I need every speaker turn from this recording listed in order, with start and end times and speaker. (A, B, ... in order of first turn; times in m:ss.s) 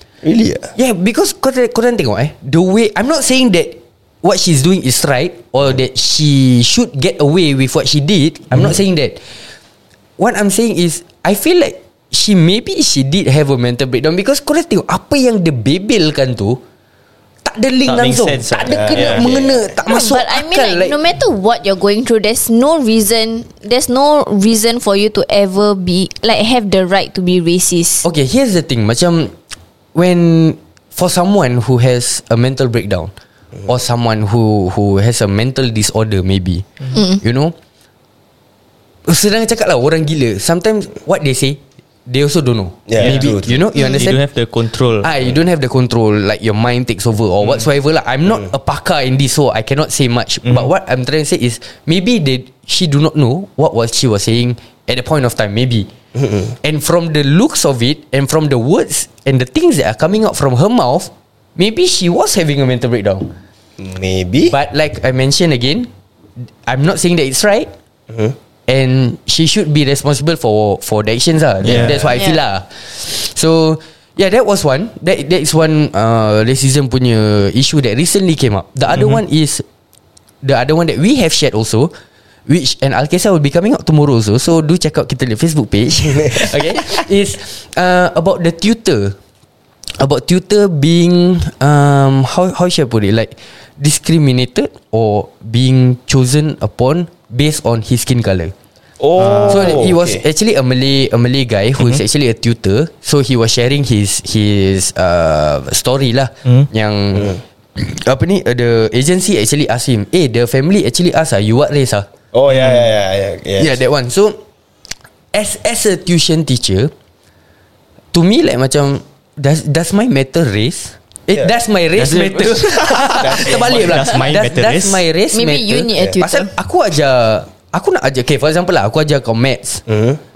0:00.2-0:00.7 A
0:00.7-0:09.3 B
0:10.2-0:16.6 B
0:17.4-0:21.0 B
0:17.8-0:19.2 C
0:18.7-0:19.7 A
0:19.9-0:28.0 D
0:28.0-0:29.3 B
0:29.9-0:33.1 B
0:33.6-0:37.5 B
0:36.9-0:37.2 D
0:39.0-0:44.2 B
0:42.9-0:43.6 A
0:43.0-0:45.1 C
0:43.8-0:44.0 D
0:45.0-0:55.9 B
0:56.1-0:56.5 A
0:56.6-1:03.3 B
1:03.8-1:04.5 A
1:04.4-1:05.9 B
1:06.4-1:07.7 B
1:08.1-1:08.3 A
1:08.7-1:19.6 B
1:11.6-1:12.0 C
1:11.6-1:12.1 A
1:12.1-1:12.4 D
1:20.4-1:21.9 B
1:22.5-1:29.2 B
1:26.1-1:26.9 A
1:30.0-1:38.5 B
1:39.0-1:40.2 A
1:39.2-1:39.8 C
1:39.5-1:52.0 B
1:52.3-1:53.8 A
1:52.5-1:52.9 C
1:53.6-1:54.4 B
1:55.3-1:56.9 B
1:58.1-2:09.8 B
2:01.9-2:05.0 C
2:03.2-2:04.2 A
2:05.3-2:06.5 D
2:09.9-2:10.2 A